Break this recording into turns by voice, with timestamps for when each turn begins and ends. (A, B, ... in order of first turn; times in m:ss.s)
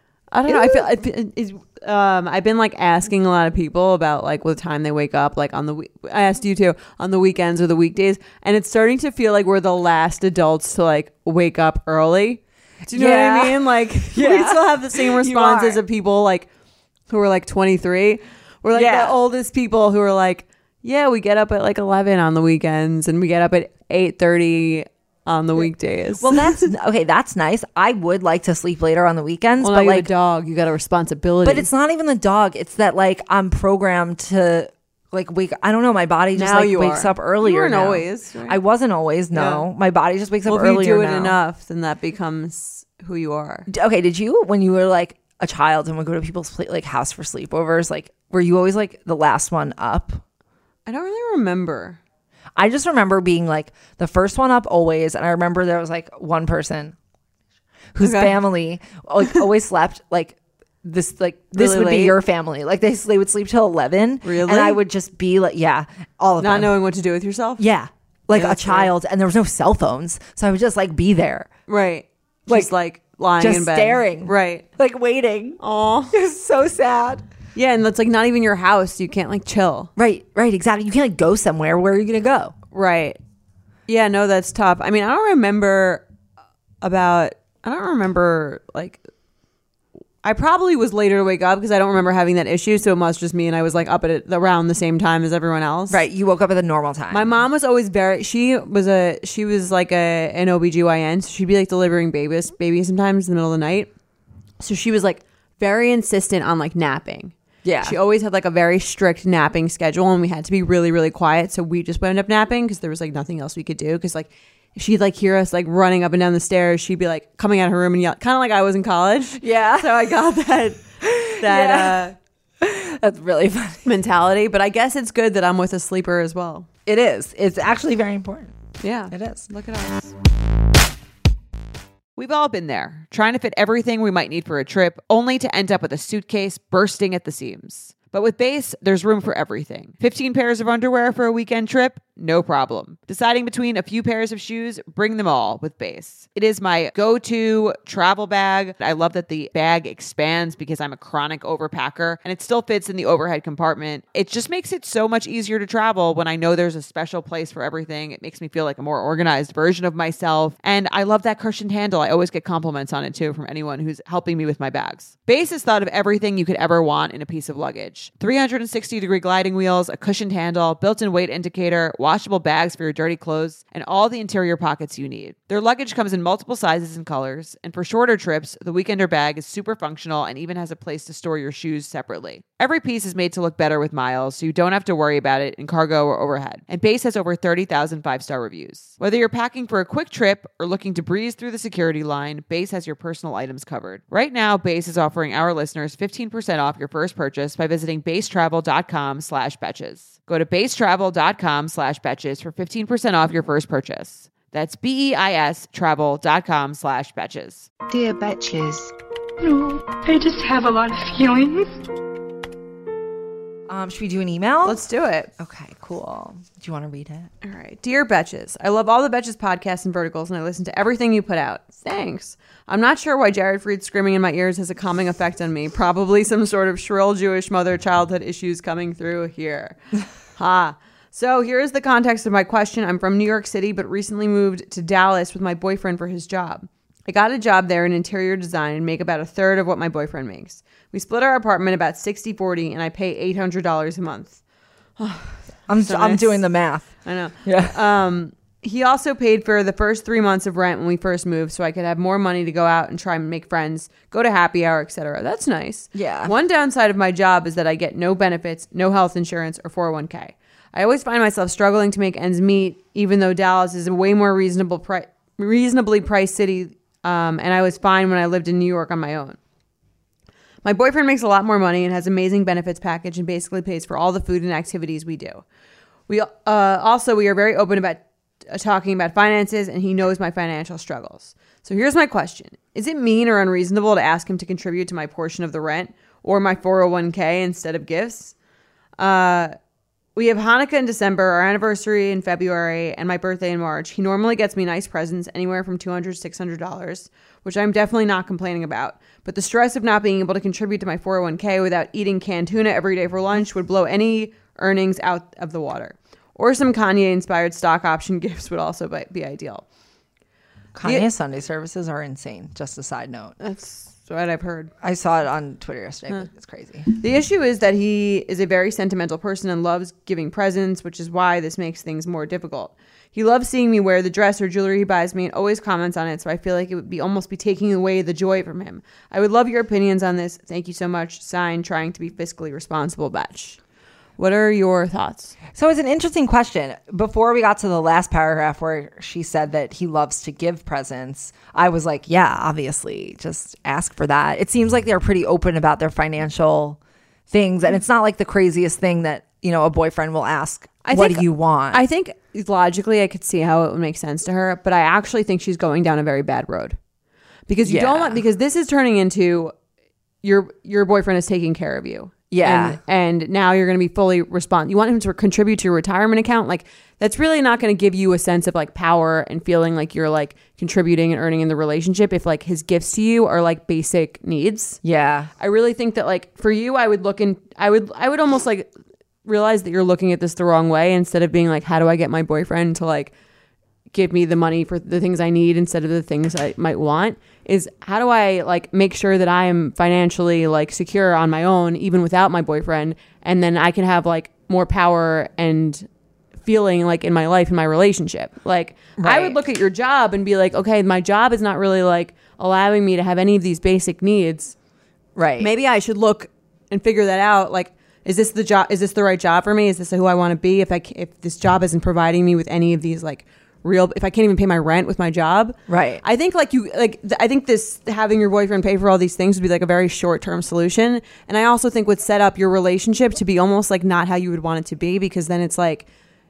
0:00.3-0:16.5 A
0:00.5-0:00.9 B
0:12.9-0:15.8 B
0:17.1-0:26.7 A
0:18.7-0:19.2 B
0:26.2-0:30.1 B
0:29.6-0:31.7 A
0:31.4-0:41.4 B
0:36.4-0:38.6 A
0:39.3-0:39.6 A
0:40.5-0:43.7 A
0:43.7-0:50.2 B
0:50.9-0:52.0 A
0:52.6-0:57.0 B
0:57.9-1:06.7 B
0:58.0-0:58.4 A
1:01.5-1:02.2 A
1:04.2-1:04.8 A
1:06.4-1:07.6 A
1:07.6-1:11.5 B
1:08.3-1:08.9 A
1:11.7-1:14.6 A
1:13.4-1:15.6 B
1:15.6-1:16.2 A
1:16.1-1:17.2 B
1:17.6-1:19.9 A
1:20.0-1:22.6 B
1:22.7-1:23.2 A
1:23.9-1:26.0 A
1:26.8-1:29.0 A
1:30.2-1:36.0 A
1:35.9-1:37.3 B
1:37.1-1:43.9 A
1:44.6-2:02.2 A
1:47.6-1:48.0 B
1:59.4-1:59.9 B
2:01.0-2:02.0 B
2:02.6-2:03.9 B
2:03.8-2:06.7 A
2:06.9-2:08.6 B
2:08.8-2:10.2 A
2:09.1-2:09.5 B
2:12.2-3:27.7 A
3:27.9-3:31.8 C
3:33.7-3:34.8 B
3:34.6-3:35.3 A
3:35.4-3:37.3 B
3:37.4-3:49.8 A
3:50.4-4:04.4 A
4:05.0-4:06.4 A
4:05.7-4:06.9 B
4:07.0-4:29.4 A
4:07.4-4:07.8 B
4:15.9-4:16.3 B
4:30.6-4:35.4 A
4:36.1-4:48.4 A
4:49.0-4:49.6 A
4:50.2-5:09.7 A
5:10.8-5:13.4 B
5:13.4-5:14.7 A
5:14.8-5:16.9 B
5:16.9-5:33.6 A
5:34.2-5:35.4 A
5:35.5-5:46.8 B
5:47.3-5:51.8 B
5:50.8-5:56.8 A
5:57.5-5:59.5 A
5:57.6-5:58.2 B
6:00.2-6:14.8 A
6:02.3-6:02.8 B
6:14.8-6:15.3 B
6:15.4-6:18.7 A
6:19.2-6:23.1 A
6:23.9-6:35.9 A
6:36.4-6:44.6 A
6:39.0-6:39.4 B
6:45.2-6:45.5 B
6:45.4-7:05.9 A
6:55.7-6:56.0 B